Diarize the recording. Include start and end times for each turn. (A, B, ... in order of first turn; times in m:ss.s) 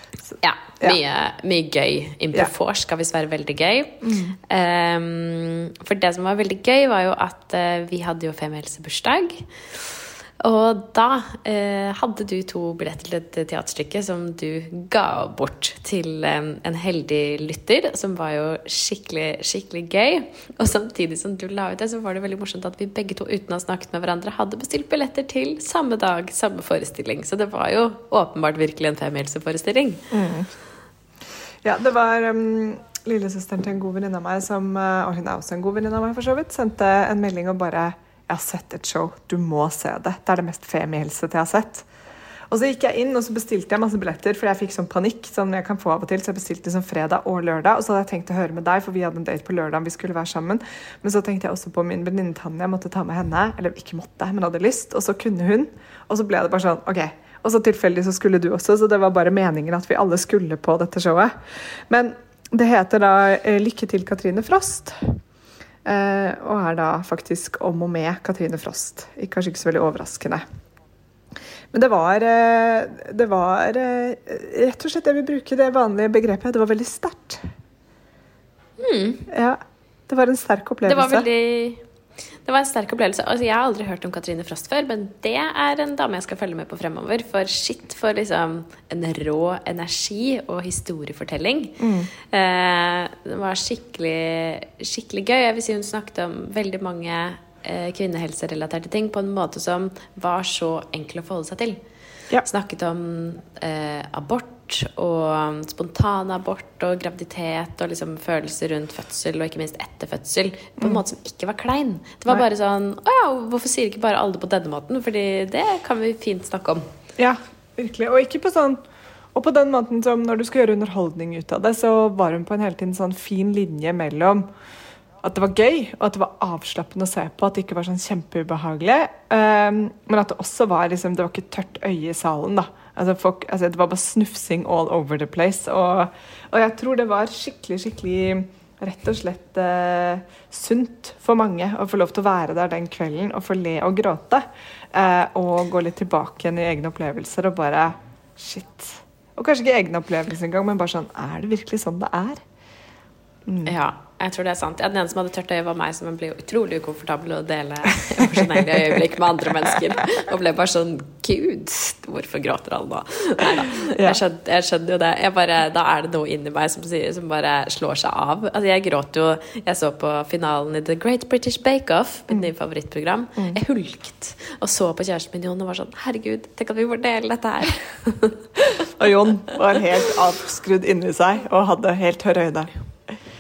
0:00.3-0:01.0 A
0:00.4-0:30.1 B
0:04.0-0:04.4 A
0:30.1-0:30.5 A
0:31.6-0:41.9 A
0:42.5-1:05.2 A
1:05.8-1:10.4 A
1:11.7-1:17.4 A
1:18.8-1:19.3 B
1:19.3-1:21.3 A
1:20.9-1:21.8 B
1:22.4-1:41.8 B
1:31.8-1:32.1 A
1:42.4-1:56.8 B
1:57.2-1:58.8 A
1:59.4-2:04.5 A
2:05.2-2:32.4 A
2:33.5-2:33.8 A
2:33.7-2:58.8 B
2:38.2-2:39.0 A
2:43.8-2:44.2 A
2:58.8-3:02.7 A